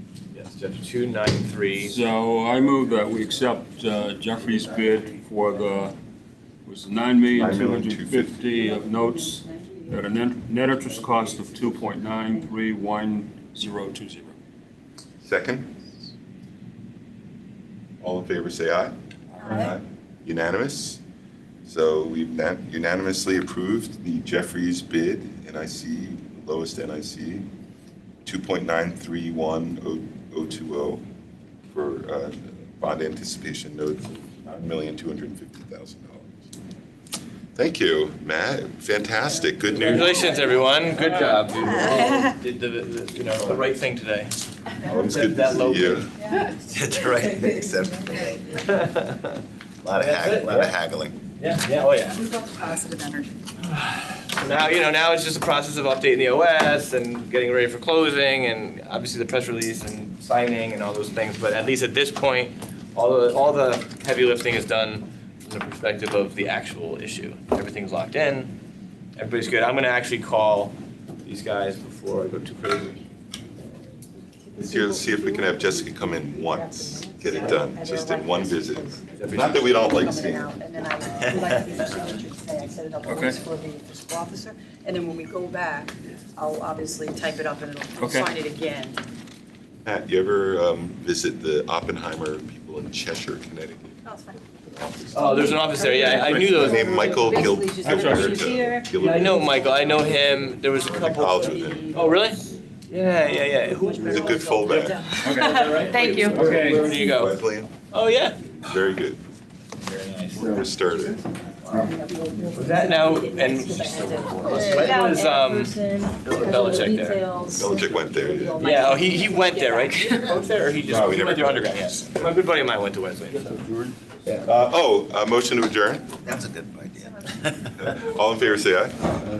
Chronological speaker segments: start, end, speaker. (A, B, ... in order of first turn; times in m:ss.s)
0:00.3-0:02.0 A
0:01.8-0:06.0 B
0:06.6-0:14.3 B
0:07.4-0:08.5 C
0:08.5-0:10.1 D
0:10.9-0:12.5 D
0:15.2-0:15.8 C
0:18.0-0:21.0 C
0:19.4-0:19.7 D
0:21.6-0:27.5 C
0:28.2-0:31.0 C
0:31.7-0:36.3 C
0:37.6-0:40.3 C
0:39.7-0:47.3 A
0:40.2-0:40.6 D
0:41.7-0:42.3 D
0:44.8-0:46.1 C
0:46.2-0:46.5 D
0:46.7-0:48.7 E
0:47.1-0:48.4 D
0:48.5-0:49.4 A
0:49.8-0:51.2 E
0:50.0-0:50.7 A
0:51.4-0:52.2 A
0:52.2-0:53.4 D
0:53.6-1:08.6 A
1:09.2-1:13.0 A
1:14.4-1:29.0 D
1:14.6-1:20.5 C
1:19.1-1:19.9 A
1:21.2-1:21.8 A
1:23.0-1:23.4 B
1:28.0-1:28.3 B
1:29.8-1:34.0 C
1:34.1-1:34.5 D
1:34.7-1:39.6 C
1:35.1-1:37.4 A
1:35.1-1:42.3 D
1:36.1-1:36.6 B
1:37.8-1:38.5 B
1:39.0-1:47.4 A
1:41.1-1:41.9 C
1:43.2-1:47.3 D
1:44.0-1:45.2 C
1:45.2-1:46.9 B
1:46.2-1:47.7 C
1:47.9-1:48.4 A
1:48.6-1:49.2 C
1:49.8-1:50.7 A
1:50.3-1:51.2 C
1:51.6-2:00.5 D
1:52.6-1:57.2 A
1:57.5-1:58.7 C
1:58.6-2:03.6 A
2:00.8-2:02.3 C
2:03.3-2:04.0 B
2:04.4-2:06.1 C
2:06.2-2:07.9 E
2:07.8-2:09.1 C